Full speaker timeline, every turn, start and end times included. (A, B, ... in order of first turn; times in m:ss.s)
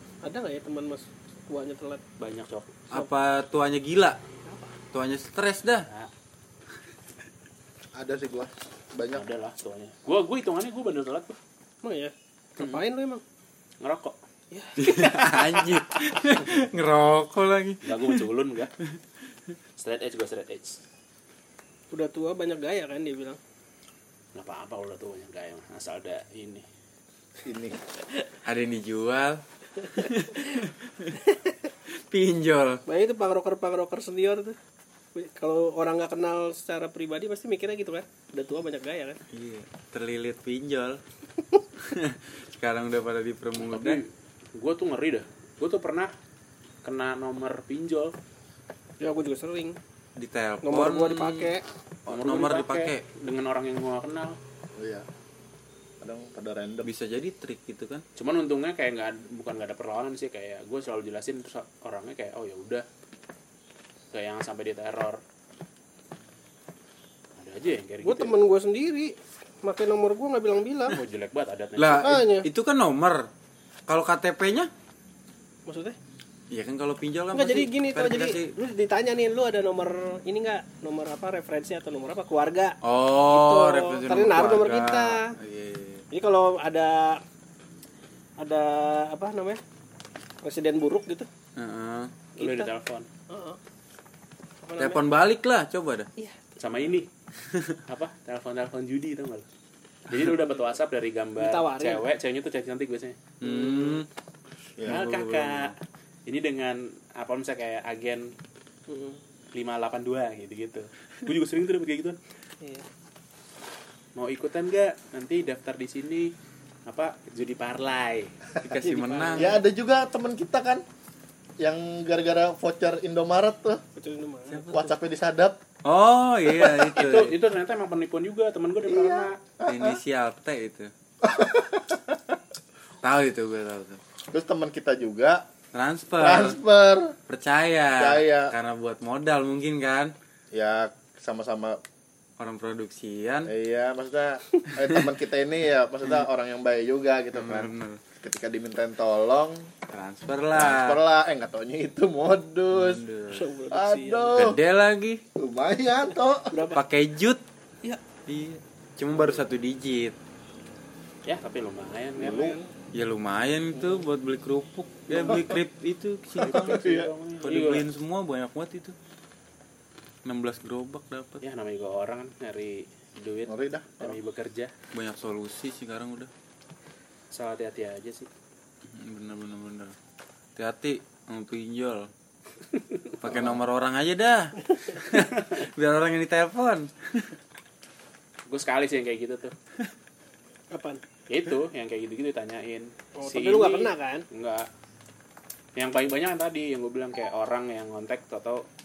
0:00.2-0:02.0 A
0:02.2-0:02.8 B
0:02.9-0:04.2 C
0:04.4-0:04.7 A
0:04.9-0:05.9 C
0:07.9-0:09.2 D
0:09.1-0:11.4 B
0:11.8-0:13.2 A
0:12.6-0:12.8 C
0:13.8-0:14.2 B
0:14.5-0:15.0 A
0:14.8-0:18.2 C
0:15.0-0:15.8 B
0:17.8-0:18.7 B
0:19.8-0:20.8 B
0:21.9-0:23.4 A
0:24.3-0:26.6 B
0:27.4-0:27.8 D
0:28.4-0:29.4 C
0:29.9-0:31.2 C
0:31.9-0:32.8 C
0:32.9-0:34.6 A
0:35.1-0:39.2 A
0:39.3-0:41.0 C
0:41.8-0:44.0 C
0:43.6-0:46.1 B
0:46.8-0:48.1 B
0:49.0-0:49.8 A
0:50.2-0:53.0 C
0:50.6-0:51.6 A
0:52.1-0:54.4 B
0:54.8-0:55.1 D
0:56.0-0:56.9 D
0:56.8-0:58.0 C
0:58.2-1:02.9 B
1:04.1-1:05.2 B
1:07.4-1:08.4 B
1:08.0-1:11.0 A
1:10.9-1:12.2 B
1:11.8-1:13.3 C
1:12.0-1:12.5 A
1:13.9-1:14.7 C
1:15.7-1:16.0 A
1:16.5-1:18.5 C
1:17.3-1:25.3 A
1:22.8-1:26.1 C
1:26.1-1:27.2 A
1:28.4-1:29.6 A
1:30.4-1:31.3 A
1:31.6-1:32.1 C
1:32.4-1:32.7 A
1:32.4-1:33.1 B
1:33.3-1:33.6 A
1:34.6-1:35.0 A
1:34.8-1:36.1 C
1:36.6-1:37.1 B
1:37.5-1:37.8 C
1:37.9-1:39.4 B
1:40.1-1:43.2 B
1:41.4-1:42.1 A
1:43.4-1:44.1 C
1:43.4-1:44.1 A
1:44.8-1:45.0 D
1:44.8-1:45.8 C
1:44.9-1:45.8 B
1:46.3-1:48.3 B
1:48.9-1:49.2 A
1:49.5-1:52.2 B
1:52.6-1:52.8 A
1:54.2-1:56.3 B
1:56.9-1:58.4 B
1:58.6-1:59.6 C
1:58.8-1:59.6 A
1:59.4-2:00.8 D
2:01.6-2:03.8 D
2:04.0-2:04.9 A
2:04.7-2:05.6 D
2:05.8-2:07.4 C
2:06.9-2:09.4 B
2:08.9-2:10.0 D
2:09.7-2:10.9 C
2:11.2-2:12.4 D
2:13.0-2:14.0 C
2:14.3-2:15.4 D
2:15.7-2:16.6 C
2:16.2-2:17.1 D
2:17.3-2:20.1 C
2:18.0-2:18.6 D
2:20.5-2:21.8 D
2:22.4-2:23.5 C
2:23.5-2:29.7 D
2:27.3-2:28.0 C
2:29.9-2:31.0 C
2:30.6-2:33.1 D
2:32.7-2:33.5 C
2:33.3-2:34.4 A
2:33.7-2:34.6 D
2:34.4-2:35.2 C
2:35.4-2:36.7 D
2:36.5-2:36.8 A
2:36.7-2:37.4 C
2:38.3-2:40.2 C
2:41.3-2:42.5 B
2:42.2-2:42.7 A
2:42.2-2:42.6 D
2:42.9-2:49.0 C
2:46.5-2:47.8 B
2:46.7-2:47.0 D
2:50.2-2:51.4 C
2:51.4-2:54.7 B
2:53.5-2:54.2 D
2:54.9-2:56.3 C
2:57.3-2:58.3 B
2:58.8-3:00.0 C
3:00.6-3:02.1 C
3:02.8-3:03.0 B
3:03.2-3:07.4 C
3:03.2-3:03.6 D
3:08.5-3:09.5 B
3:10.7-3:11.0 A
3:11.3-3:14.7 B
3:13.2-3:14.2 A
3:15.8-3:18.6 B